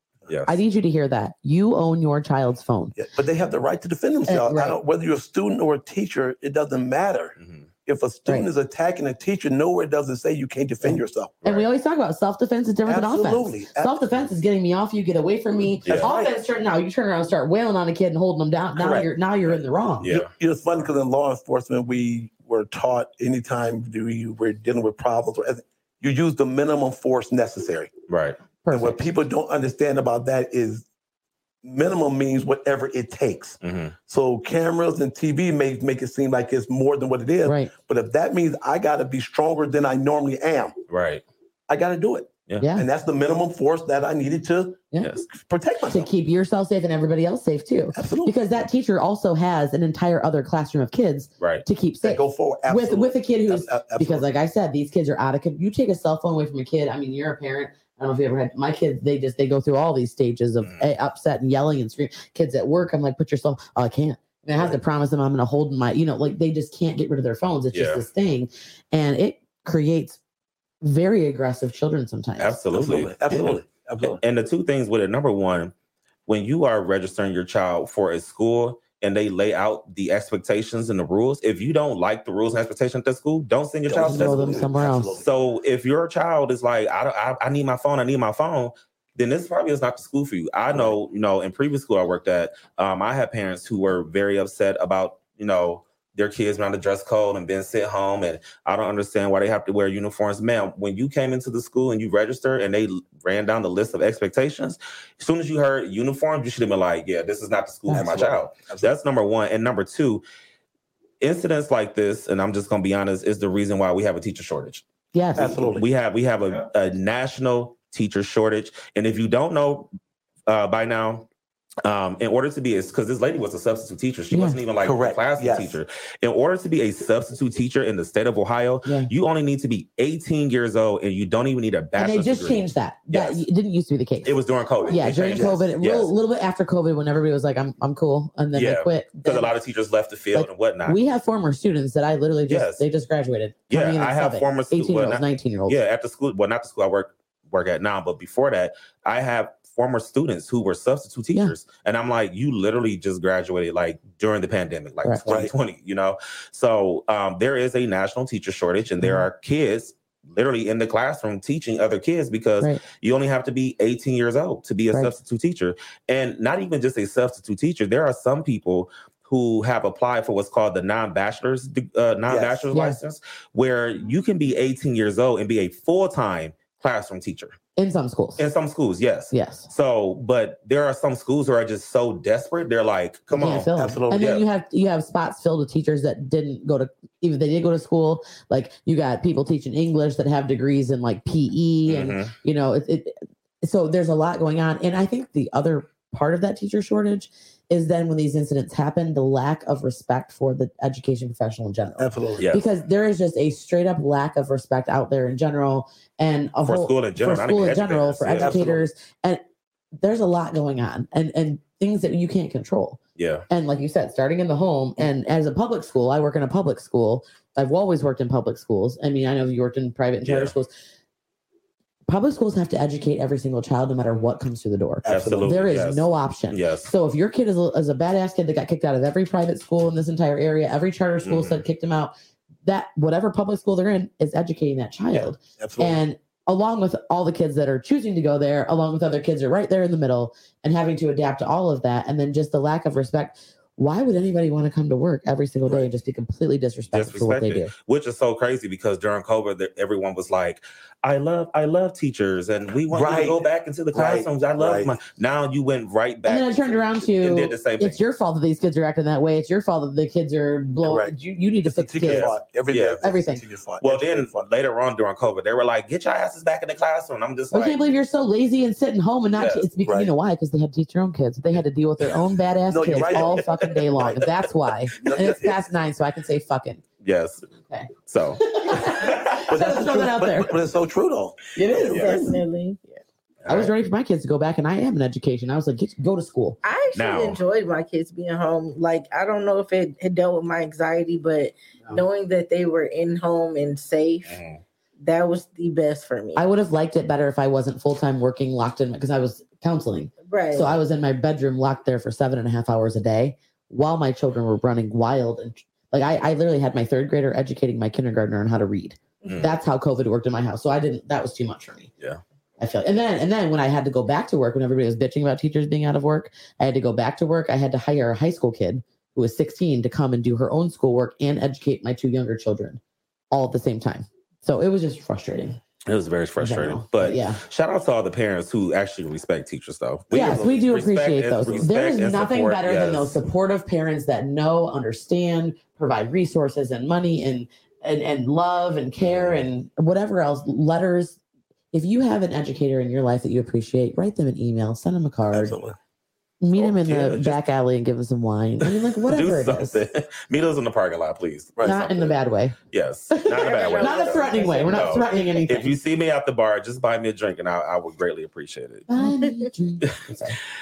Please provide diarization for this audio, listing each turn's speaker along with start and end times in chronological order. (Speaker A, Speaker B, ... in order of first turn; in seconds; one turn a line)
Speaker A: 0.3-0.6
Speaker B: 0.5-2.9
Speaker C: 3.0-11.4
Speaker B: 4.3-4.8
Speaker A: 7.4-7.7
Speaker B: 10.8-20.1
Speaker C: 12.8-14.0
Speaker C: 15.9-16.3
Speaker A: 20.0-20.3
Speaker C: 20.1-27.9
Speaker A: 28.1-28.4
Speaker B: 28.6-29.0
Speaker C: 28.7-30.9
Speaker C: 31.6-40.8
Speaker A: 33.6-33.9
Speaker B: 37.4-37.7
Speaker A: 40.9-41.2
Speaker C: 41.7-46.1
Speaker B: 42.6-42.9
Speaker A: 45.0-45.2
Speaker B: 45.9-70.2
Speaker C: 47.9-48.4
Speaker C: 52.0-54.3
Speaker A: 67.7-68.0
Speaker B: 70.8-72.5
Speaker A: 72.4-75.7
Speaker C: 72.7-74.2
Speaker A: 76.3-110.2
Speaker C: 83.9-85.3
Speaker B: 84.0-85.2
Speaker C: 90.7-91.0
Speaker C: 107.9-108.9
Speaker A: 111.2-114.8
Speaker B: 115.1-115.6
Speaker C: 115.3-115.8
Speaker A: 115.4-119.9
Speaker A: 120.5-121.3
Speaker A: 121.8-133.4
Speaker B: 124.3-124.6
Speaker C: 124.8-125.8
Speaker B: 128.8-129.1
Speaker B: 132.0-134.3
Speaker A: 134.2-136.1
Speaker B: 134.9-139.5
Speaker C: 135.3-135.7
Speaker A: 138.5-141.0
Speaker B: 140.3-145.8
Speaker A: 142.5-142.8
Speaker A: 143.7-177.6
Speaker C: 155.3-155.5
Speaker B: 159.0-159.2
Speaker C: 172.3-172.6
Speaker B: 172.7-173.0
Speaker B: 177.8-178.4
Speaker A: 178.4-184.4
Speaker B: 179.3-179.7
Speaker B: 183.3-209.4
Speaker C: 183.7-184.4
Speaker A: 191.9-192.3
Speaker C: 202.0-202.5
Speaker A: 202.4-202.7
Speaker A: 206.6-208.6
Speaker C: 208.3-208.8
Speaker B: 210.0-213.0
Speaker A: 213.2-213.4
Speaker B: 213.5-220.7
Speaker A: 220.2-220.5
Speaker B: 222.1-232.1
Speaker C: 225.0-225.6
Speaker A: 225.1-226.9
Speaker A: 231.2-231.6
Speaker B: 232.6-247.7
Speaker C: 235.6-236.0
Speaker A: 246.9-258.0
Speaker C: 252.9-255.0
Speaker B: 256.2-262.3
Speaker C: 260.8-261.1
Speaker C: 261.6-264.5
Speaker A: 262.0-263.0
Speaker B: 263.0-263.4
Speaker A: 263.8-267.9
Speaker B: 267.5-276.8
Speaker A: 269.3-269.6
Speaker C: 269.8-270.1
Speaker C: 272.7-274.2
Speaker A: 272.9-273.4
Speaker C: 275.0-275.6
Speaker A: 277.0-277.4
Speaker B: 277.7-280.6
Speaker A: 278.1-279.0
Speaker C: 279.3-282.1
Speaker B: 281.5-282.4
Speaker D: 281.9-283.0
Speaker A: 283.4-283.7
Speaker B: 283.4-286.6
Speaker D: 286.6-294.4
Speaker A: 286.9-287.4
Speaker A: 294.3-294.6
Speaker D: 295.0-296.5
Speaker B: 296.4-311.9
Speaker D: 300.2-300.7
Speaker A: 309.2-309.5
Speaker B: 312.6-322.8
Speaker B: 323.3-325.6
Speaker A: 325.9-333.2
Speaker B: 326.4-327.4
Speaker C: 330.1-330.6
Speaker B: 330.1-341.2
Speaker A: 339.0-339.4
Speaker B: 341.7-345.5
Speaker C: 345.3-345.8
Speaker B: 346.4-349.8
Speaker C: 346.6-347.4
Speaker A: 349.1-352.2
Speaker B: 351.6-352.6
Speaker A: 352.7-358.9
Speaker B: 353.1-355.8
Speaker D: 353.2-355.1
Speaker B: 358.9-360.4
Speaker D: 359.0-359.3